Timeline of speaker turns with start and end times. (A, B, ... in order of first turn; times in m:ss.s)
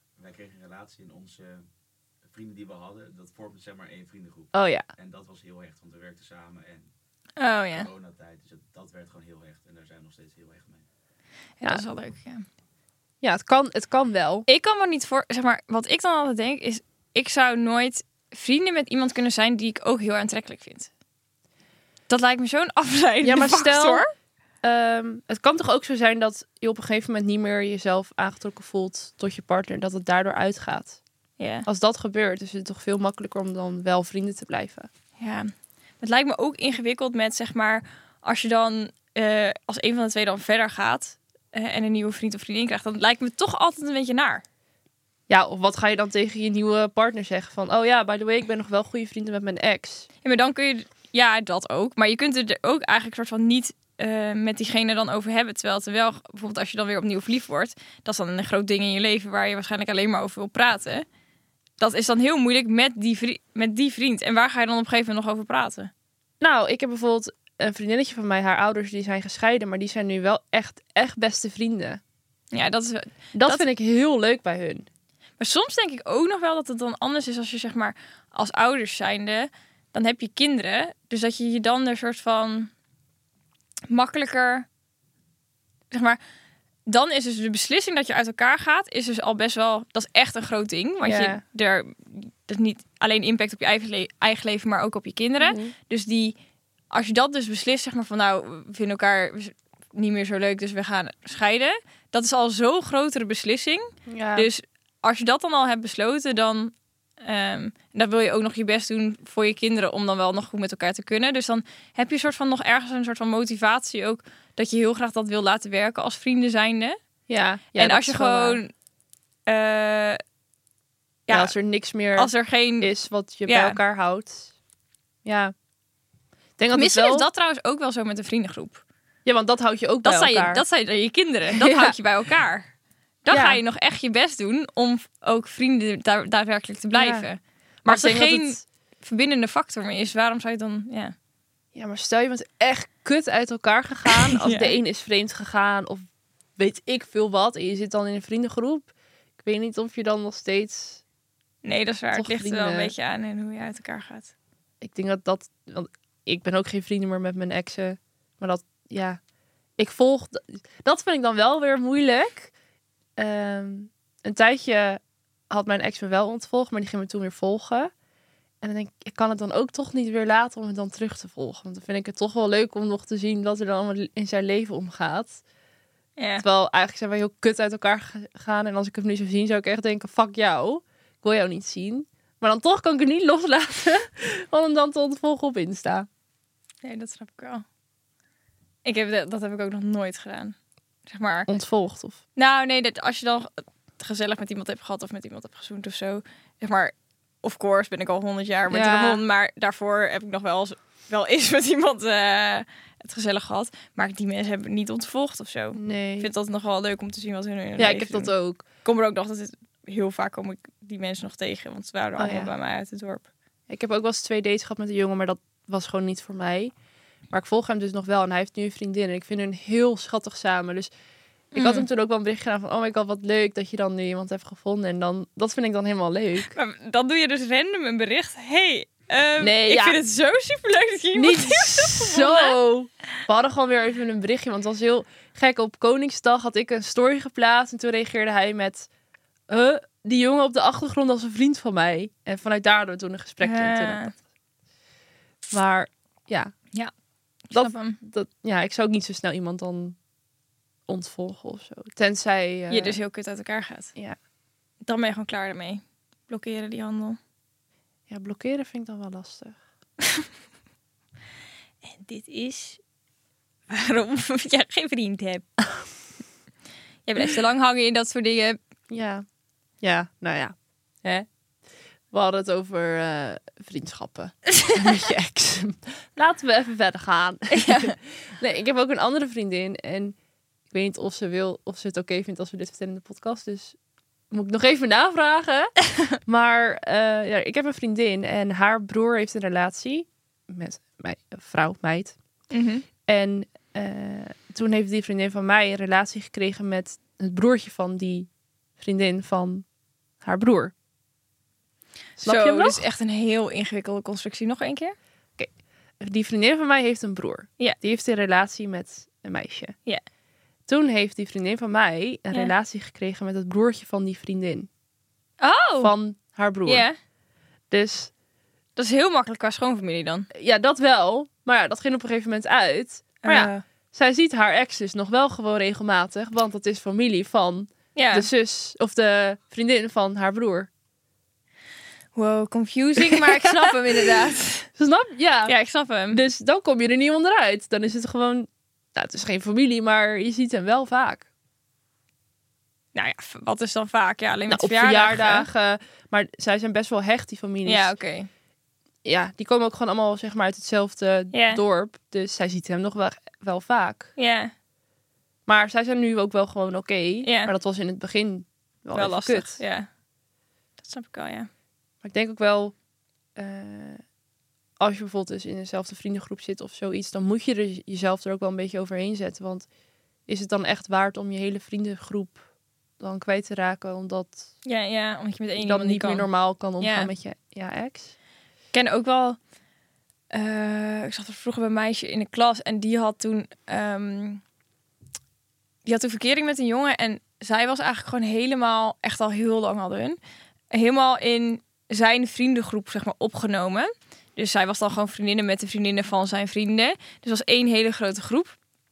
0:00.2-0:01.6 A
0:02.3-0:06.9 A
0:04.5-0:04.8 B
0:07.4-0:07.9 C
0:07.8-0:10.8 A
0:11.6-0:12.4 C
0:13.2-0:14.4 B
0:14.5-0:20.9 C
0:22.1-0:24.1 C
0:23.2-0:24.0 B
0:24.6-0:31.0 B
0:31.4-0:31.6 C
0:31.6-0:34.9 B
0:35.2-0:44.4 C
0:45.3-0:50.1 B
0:50.2-1:01.0 C
1:01.8-1:05.9 C
1:06.4-1:12.0 B
1:12.5-1:13.6 C
1:13.3-1:14.9 B
1:15.4-1:22.7 C
1:23.9-1:24.7 C
1:25.9-1:26.2 C
1:26.9-1:36.4 C
1:31.0-1:31.4 B
1:35.4-1:35.7 B
1:36.9-1:57.0 C
1:44.1-1:44.5 B
1:57.3-1:58.6 B
1:57.8-1:58.7 C
1:59.5-2:00.2 C
2:01.3-2:01.5 C
2:01.3-2:04.5 B
2:02.2-2:02.9 C
2:03.4-2:03.8 C
2:05.2-2:05.5 B
2:06.6-2:07.2 B
2:06.7-2:08.8 C
2:09.2-2:10.6 B
2:10.0-2:12.7 C
2:11.5-2:11.9 B
2:13.2-2:21.1 C
2:13.3-2:13.6 B
2:16.9-2:17.3 B
2:17.8-2:18.6 B
2:21.7-2:26.0 B
2:24.1-2:24.8 C
2:26.6-2:31.0 B
2:31.6-2:34.3 C
2:32.1-2:32.9 B
2:34.8-2:39.2 B
2:39.8-2:42.5 B
2:43.2-2:47.9 B
2:48.6-2:55.4 B
2:56.2-2:56.4 C
2:56.4-3:06.1 B
3:06.8-3:07.6 C
3:08.8-3:10.6 C
3:11.1-3:11.5 C
3:11.5-3:12.2 B
3:12.4-3:33.2 C
3:18.7-3:19.2 B
3:25.7-3:26.3 B
3:27.8-3:28.6 B
3:32.2-3:32.5 B
3:33.7-3:36.7 B
3:37.3-3:40.9 B
3:41.5-3:46.5 B
3:41.5-3:41.8 C
3:46.5-3:52.6 C
3:49.4-3:50.0 B
3:51.1-3:58.9 B
3:59.5-4:04.1 B
4:03.4-4:04.1 C
4:05.5-4:06.5 B
4:07.5-4:08.0 C
4:07.5-4:10.0 B
4:10.9-4:13.0 B
4:12.7-4:13.9 C
4:14.8-4:17.2 C
4:18.1-4:19.6 B
4:21.8-4:22.8 C
4:23.7-4:25.4 C
4:27.1-4:28.6 C
4:28.9-4:29.2 B
4:29.8-4:31.3 B
4:32.1-4:40.2 B
4:37.5-4:37.9 C
4:40.7-4:43.8 B
4:44.3-4:52.2 B
4:52.5-4:52.8 C
4:53.1-4:59.6 B
5:00.2-5:00.7 B
5:02.2-5:02.8 B
5:02.2-5:05.0 C
5:05.4-5:09.8 B
5:10.7-5:14.7 B
5:15.4-5:15.9 C
5:15.8-5:16.8 B
5:16.6-5:17.0 C
5:17.7-5:18.1 B
5:18.8-5:20.3 C
5:20.3-5:30.7 B
5:23.2-5:23.6 C
5:27.9-5:28.3 C
5:32.1-5:34.7 C
5:33.0-5:33.8 B
5:34.8-5:35.5 B
5:35.5-5:36.2 C
5:36.1-5:41.2 B
5:42.9-5:45.5 C
5:44.5-5:47.9 B
5:47.6-5:48.3 C
5:49.0-5:54.1 B
5:51.3-5:51.6 C
5:54.2-5:54.5 C
5:55.5-5:59.6 B
5:57.2-5:57.5 C
5:58.9-5:59.9 C
6:00.8-6:01.5 C
6:02.0-6:02.7 B
6:03.4-6:04.0 B
6:04.8-6:09.7 B
6:10.3-6:12.4 B
6:13.0-6:14.4 B
6:14.6-6:16.3 C
6:15.6-6:18.1 B
6:16.8-6:17.1 C
6:18.7-6:19.4 C
6:20.3-6:24.4 C
6:25.8-6:30.2 C
6:30.7-6:38.5 C